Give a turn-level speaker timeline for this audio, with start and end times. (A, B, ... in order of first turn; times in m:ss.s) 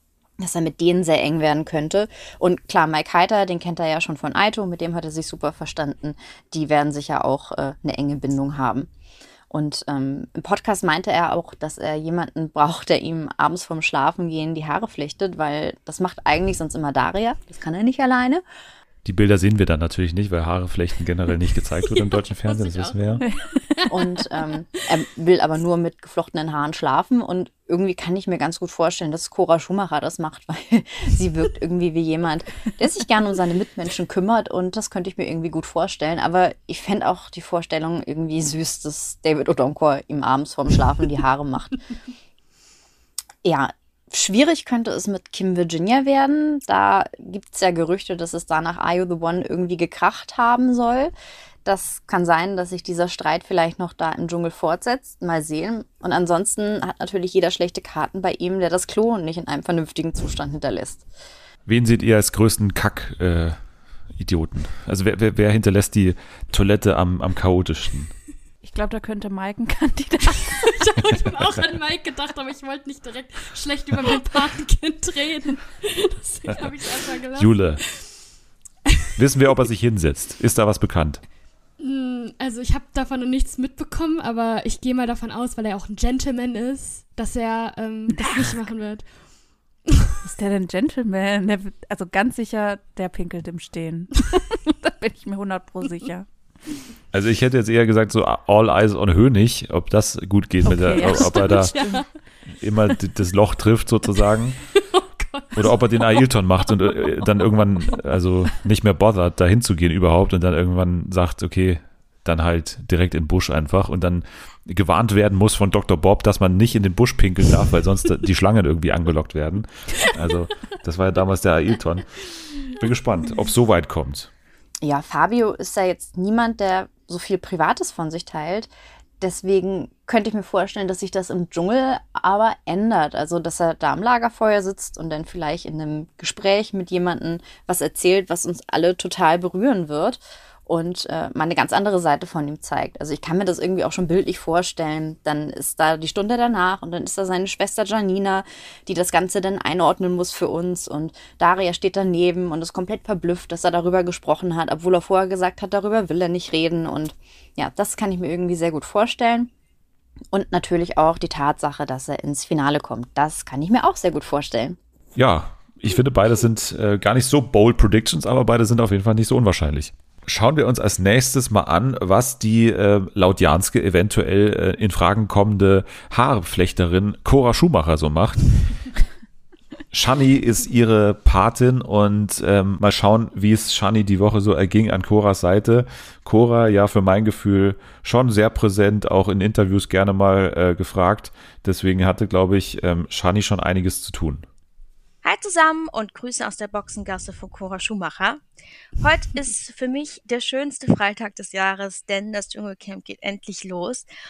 0:00.4-0:08.9 A
0:09.5-0:18.4 A
0:19.0-0:23.2 B
0:22.5-0:23.3 C
0:23.2-0:23.6 D
0:23.9-0:41.8 A
0:43.4-0:51.1 A
0:51.6-1:01.0 A
1:01.6-1:03.6 B
1:04.2-1:08.1 B
1:08.6-1:10.7 D
1:10.5-1:18.0 C
1:17.4-1:17.8 B
1:19.2-1:21.2 B
1:21.8-1:29.0 C
1:28.1-1:28.6 D
1:30.2-1:36.2 D
1:37.1-1:41.7 B
1:40.6-1:42.0 D
1:41.0-1:42.1 C
1:42.6-1:44.6 B
1:44.7-1:47.5 C
1:45.6-2:02.0 B
2:02.7-2:04.3 B
2:04.8-2:39.5 A
2:40.3-2:44.8 A
2:45.2-2:58.6 B
2:59.9-3:14.4 B
3:15.2-3:18.4 E
3:19.0-3:24.0 E